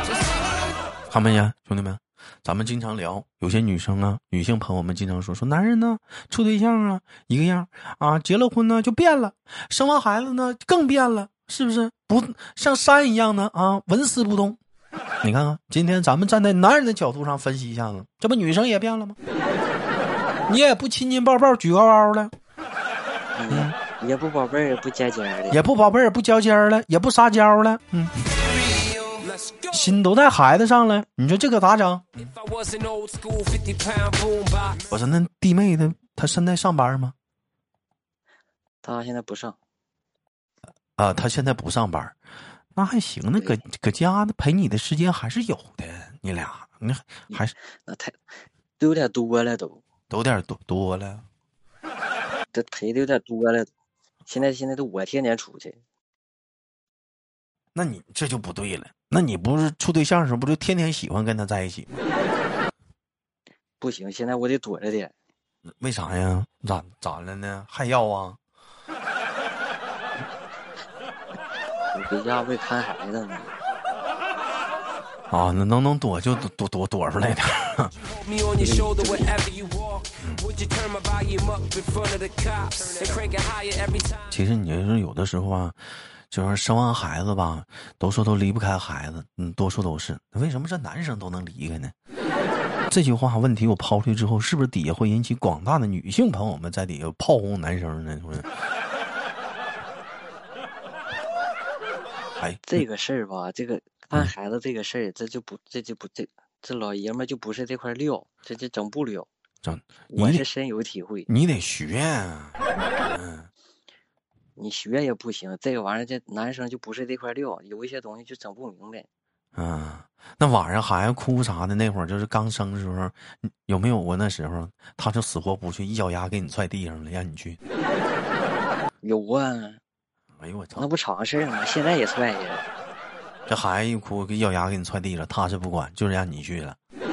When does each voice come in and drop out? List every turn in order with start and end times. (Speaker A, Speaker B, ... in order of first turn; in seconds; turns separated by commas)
Speaker A: 1.1-14.6, Speaker A: 15.2-19.2, Speaker A: 20.5-22.3, Speaker B: 23.4-25.6, Speaker A: 25.5-28.1, Speaker C: 29.4-29.7, Speaker A: 29.7-32.3, Speaker C: 32.3-34.9, Speaker A: 34.9-37.1, Speaker B: 38.8-39.6, Speaker A: 41.0-42.1, Speaker A: 42.8-47.5, Speaker B: 43.4-43.6, Speaker B: 47.3-48.2, Speaker B: 48.8-49.8, Speaker A: 50.1-51.2, Speaker B: 52.5-53.7, Speaker B: 54.3-55.8, Speaker A: 57.8-62.0, Speaker B: 63.8-65.1, Speaker A: 65.8-68.4, Speaker B: 71.9-73.5, Speaker A: 75.3-77.9, Speaker C: 78.2-84.2, Speaker B: 78.6-79.4, Speaker A: 84.3-85.8, Speaker A: 86.3-91.9, Speaker A: 92.9-98.5, Speaker A: 102.4-102.7, Speaker B: 102.7-109.3, Speaker A: 109.6-110.5, Speaker B: 110.1-111.3, Speaker A: 111.3-112.6, Speaker A: 113.1-113.5, Speaker B: 114.6-119.1, Speaker A: 119.6-127.6, Speaker B: 129.0-129.8, Speaker A: 130.4-130.9, Speaker B: 130.8-132.7, Speaker A: 133.5-136.8